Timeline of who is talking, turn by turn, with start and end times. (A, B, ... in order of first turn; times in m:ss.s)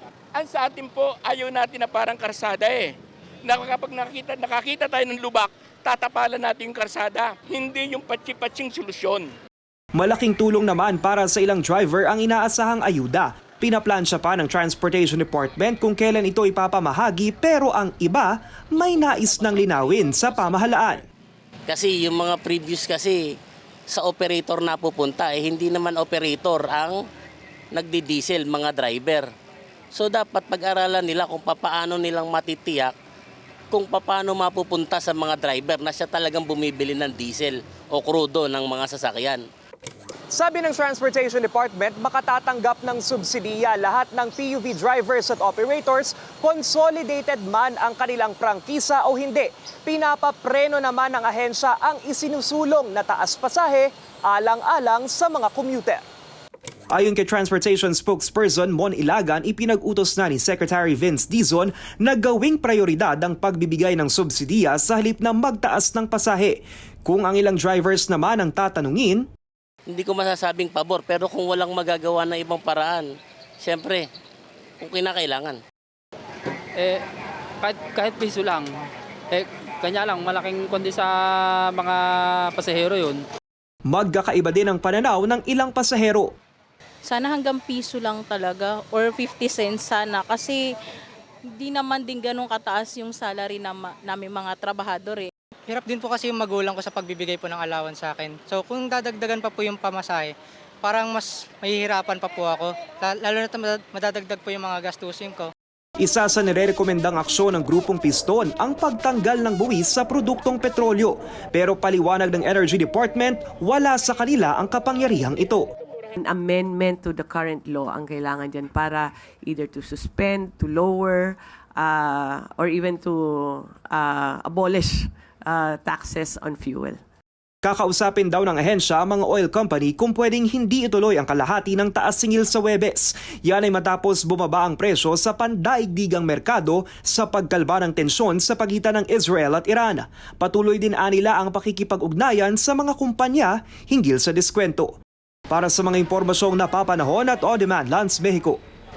0:00.4-0:02.9 A
0:03.4-0:09.3 A
0:10.0-0:21.0 B
0:21.7-0:23.2 C
0:23.9-0:27.0 C
0:27.7-0:29.3 C
0:29.9-0:33.0 C
0:33.7-0:39.4 C
0:40.3-0:56.0 B
0:56.9-1:09.2 B
1:09.9-1:13.1 C
1:13.6-1:14.0 C
1:14.8-1:15.6 C
1:17.6-1:18.7 D
1:19.3-1:21.1 D
1:21.6-1:23.2 D
1:23.9-1:26.3 B
1:27.1-1:30.6 E
1:31.6-1:35.3 E
1:35.7-1:45.5 F
1:46.0-1:55.6 B
1:56.2-2:07.0 G
2:07.6-2:24.9 B
2:25.5-2:28.6 B